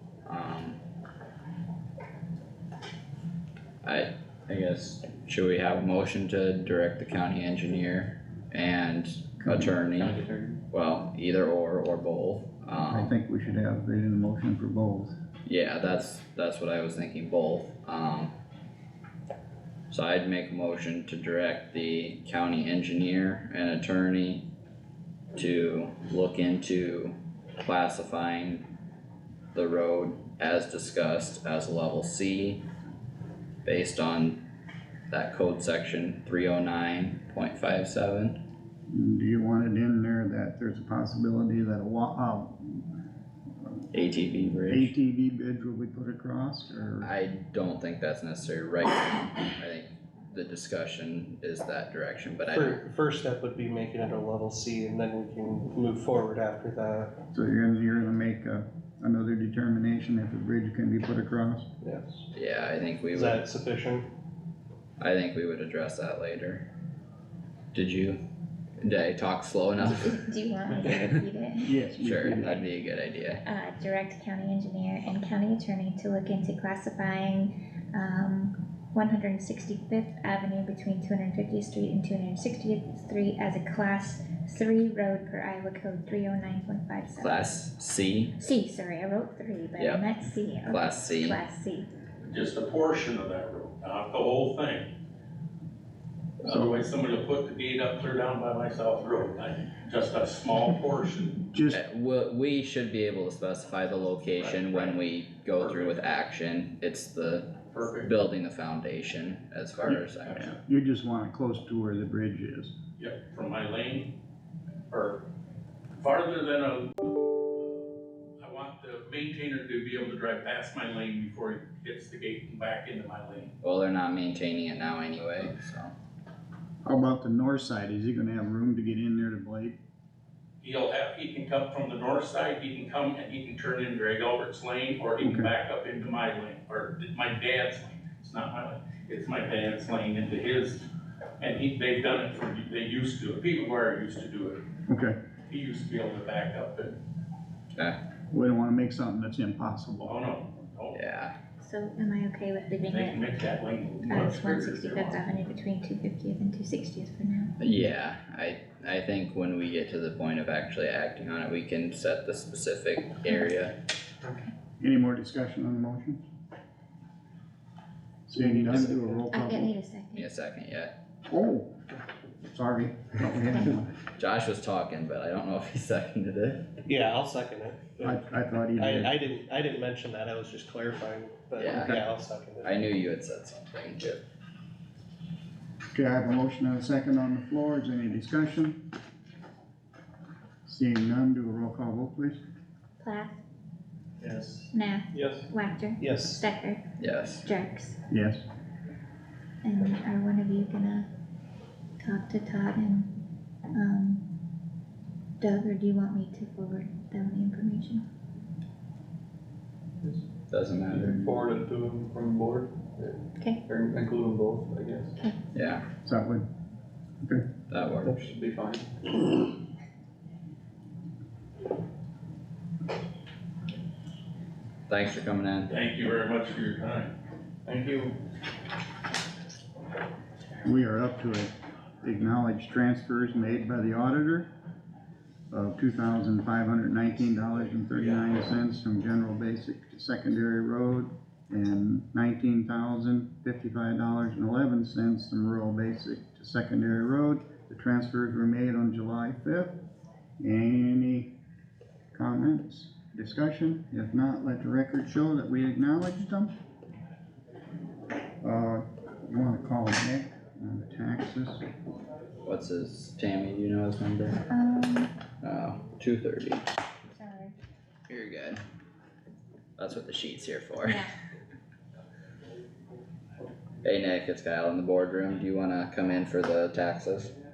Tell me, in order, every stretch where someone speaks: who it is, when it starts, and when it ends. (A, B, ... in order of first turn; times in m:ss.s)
0:00.2-0:00.8 A
0:03.8-0:10.2 A
0:09.9-0:10.6 B
0:10.7-0:13.1 A
0:12.9-0:15.1 C
0:15.5-0:18.4 A
0:19.9-0:24.5 A
0:25.4-0:28.7 A
0:29.5-0:32.6 A
0:33.6-0:34.4 A
0:35.1-0:38.4 A
0:38.9-0:42.9 C
0:43.9-0:44.9 A
0:44.7-0:47.1 C
0:47.0-0:52.8 A
0:52.5-0:57.2 D
0:57.3-1:01.7 C
1:01.8-1:02.2 D
1:02.3-1:03.4 A
1:03.1-1:04.1 D
1:05.0-1:06.7 A
1:07.7-1:08.2 A
1:08.8-1:10.2 A
1:09.8-1:12.6 E
1:11.6-1:12.6 C
1:12.0-1:13.4 A
1:13.4-1:27.5 E
1:27.2-1:28.3 A
1:28.4-1:31.9 E
1:29.8-1:30.1 A
1:30.6-1:31.4 A
1:32.2-1:35.0 F
1:36.4-1:41.4 F
1:36.4-1:36.8 C
1:41.5-1:41.8 C
1:41.7-1:50.4 A
1:44.4-1:45.0 F
1:45.6-1:46.0 F
1:47.7-1:48.1 F
1:49.8-1:52.7 C
1:53.0-1:54.2 F
1:54.9-1:55.2 F
1:56.0-1:57.0 F
1:57.6-1:57.9 F
1:58.4-2:03.5 F
2:03.6-2:05.9 A
2:06.8-2:09.8 C
2:10.6-2:20.8 F
2:15.2-2:15.5 C
2:21.4-2:24.6 F
2:24.9-2:25.2 C
2:25.5-2:27.0 F
2:28.3-2:30.2 C
2:30.0-2:31.0 F
2:30.9-2:31.3 A
2:31.6-2:33.3 E
2:32.9-2:35.2 F
2:34.0-2:37.6 E
2:37.6-2:43.8 A
2:44.2-2:44.5 E
2:44.8-2:46.2 C
2:48.3-2:49.7 C
2:48.4-2:48.9 A
2:48.5-2:49.2 D
2:49.3-2:50.3 E
2:50.1-2:50.9 A
2:51.3-2:51.8 C
2:52.5-2:53.9 C
2:54.1-2:56.7 A
2:56.8-2:58.2 D
2:58.0-2:59.2 C
2:58.8-3:02.7 D
3:01.6-3:02.1 A
3:02.6-3:04.2 A
3:05.9-3:08.8 C
3:10.6-3:12.4 C
3:13.0-3:13.4 E
3:14.2-3:15.5 B
3:14.7-3:16.8 E
3:16.0-3:16.4 D
3:17.0-3:17.4 A
3:17.4-3:18.0 E
3:18.1-3:18.4 C
3:19.6-3:21.1 E
3:22.0-3:23.1 E
3:23.7-3:24.2 E
3:25.4-3:28.0 E
3:30.5-3:31.2 A
3:30.9-3:35.2 B
3:35.5-3:35.8 A
3:36.0-3:36.5 C
3:37.7-3:38.3 A
3:38.1-3:39.1 B
3:44.9-3:45.7 A
3:45.7-3:47.1 F
3:47.7-3:48.2 B
3:50.6-3:54.5 C
3:55.5-4:09.8 C
4:10.4-4:11.3 C
4:12.1-4:16.5 C
4:18.4-4:21.7 C
4:22.4-4:24.4 A
4:24.5-4:25.1 E
4:25.4-4:26.6 A
4:27.1-4:27.6 E
4:28.1-4:28.6 A
4:29.8-4:31.0 A
4:30.8-4:31.1 E
4:33.8-4:37.3 A